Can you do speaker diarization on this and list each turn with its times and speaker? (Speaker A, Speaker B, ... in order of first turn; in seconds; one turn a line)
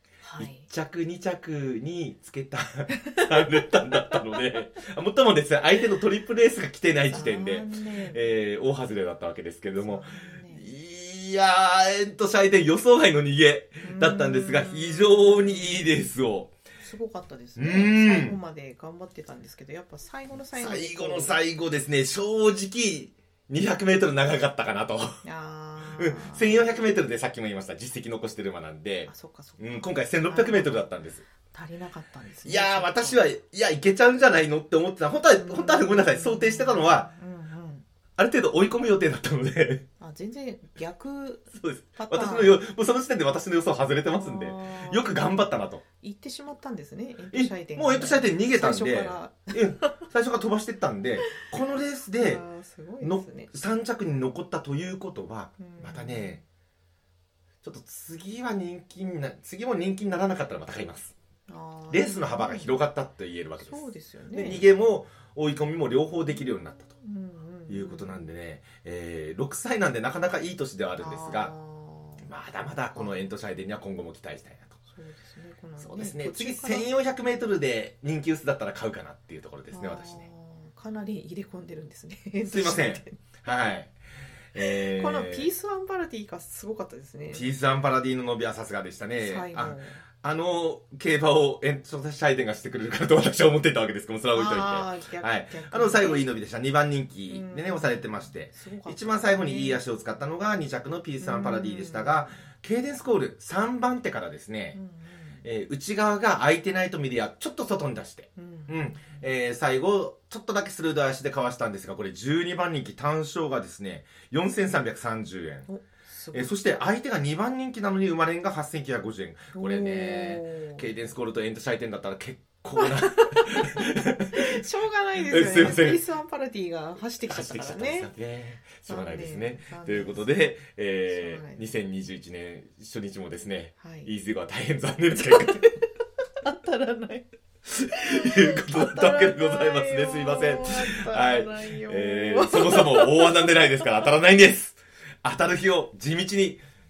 Speaker A: 0.2-0.7
Speaker B: 0.4-16.5
Speaker A: 7.1-8.2
Speaker A: 9.8-10.7
Speaker A: 13.8-15.8
Speaker A: 16.8-21.4
Speaker B: 17.6-18.4
Speaker B: 20.5-25.2
Speaker A: 25.2-26.6
Speaker B: 25.9-31.2
Speaker A: 29.1-30.9
Speaker A: 31.5-33.3
Speaker B: 32.4-37.1
Speaker A: 35.4-37.8
Speaker B: 38.2-39.9
Speaker A: 40.0-42.6
Speaker B: 41.5-45.8
Speaker A: 44.1-45.3
Speaker A: 46.0-49.9
Speaker B: 47.3-52.4
Speaker A: 52.2-53.5
Speaker B: 53.0-56.4
Speaker A: 55.6-56.4
Speaker B: 57.6-61.1
Speaker A: 61.5-62.7
Speaker B: 61.9-67.0
Speaker A: 63.6-64.6
Speaker A: 67.0-68.2
Speaker B: 67.7-71.5
Speaker A: 71.0-72.3
Speaker B: 72.2-74.8
Speaker A: 74.9-76.9
Speaker B: 75.8-80.3
Speaker A: 79.7-83.2
Speaker B: 82.4-84.0
Speaker B: 84.5-85.5
Speaker A: 84.6-87.6
Speaker B: 87.3-104.8
Speaker A: 89.2-90.0
Speaker A: 94.3-96.3
Speaker A: 97.3-99.8
Speaker A: 101.2-102.3
Speaker A: 104.7-105.4
Speaker B: 105.4-115.7
Speaker A: 108.3-109.2
Speaker A: 115.7-116.5
Speaker B: 116.3-124.6
Speaker A: 119.5-120.9
Speaker A: 124.3-128.1
Speaker B: 125.2-126.0
Speaker B: 127.3-135.7
Speaker A: 128.9-130.4
Speaker A: 131.1-131.6
Speaker A: 133.8-134.1
Speaker A: 136.4-137.3
Speaker B: 137.7-146.6
Speaker A: 138.0-143.9